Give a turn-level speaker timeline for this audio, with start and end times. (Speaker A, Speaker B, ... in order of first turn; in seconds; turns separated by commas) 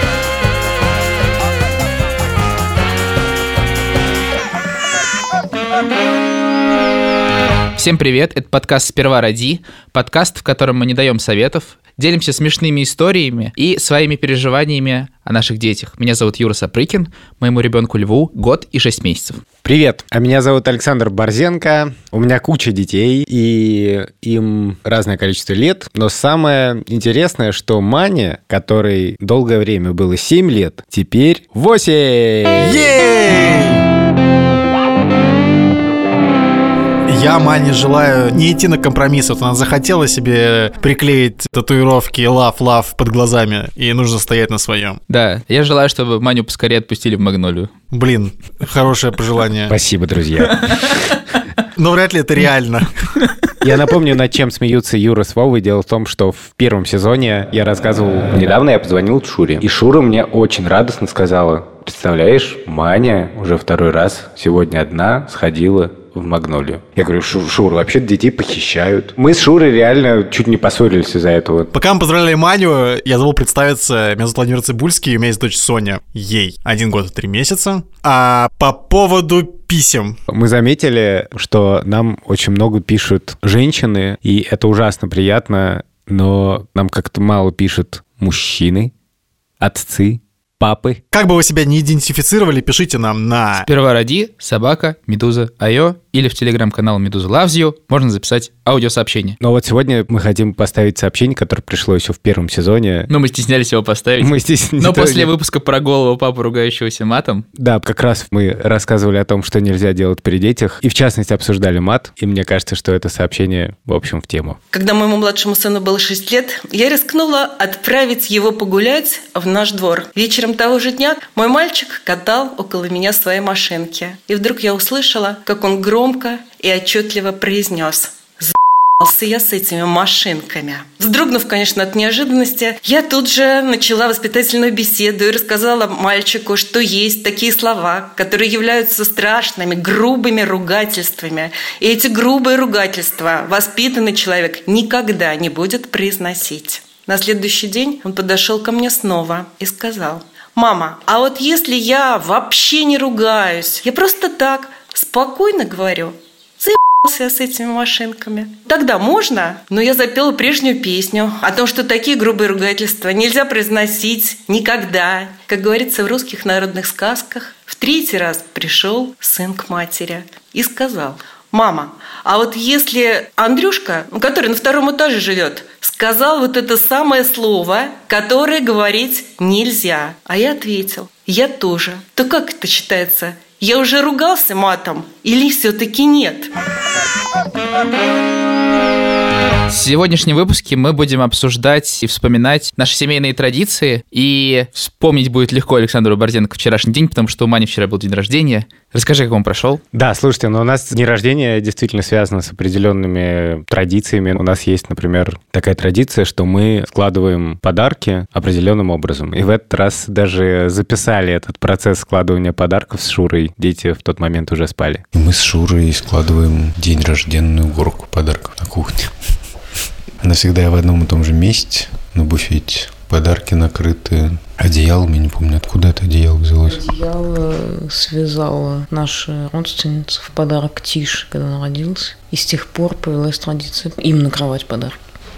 Speaker A: 7.8-19.4, Speaker B: 19.6-32.9, Speaker C: 32.6-33.8, Speaker C: 37.1-45.0, Speaker A: 45.1-47.7, Speaker C: 47.9-49.7, Speaker B: 49.7-50.7, Speaker C: 51.8-52.9, Speaker B: 53.6-71.7, Speaker C: 71.7-80.2, Speaker B: 80.3-88.9, Speaker B: 89.6-91.0, Speaker C: 91.1-93.7, Speaker A: 93.5-99.4, Speaker B: 99.4-103.1, Speaker A: 103.1-107.5, Speaker B: 104.2-105.3, Speaker B: 107.5-114.6, Speaker D: 114.7-186.5, Speaker A: 189.7-199.8, Speaker B: 199.9-215.1, Speaker E: 215.1-219.1, Speaker E: 220.2-226.9, Speaker F: 226.7-235.0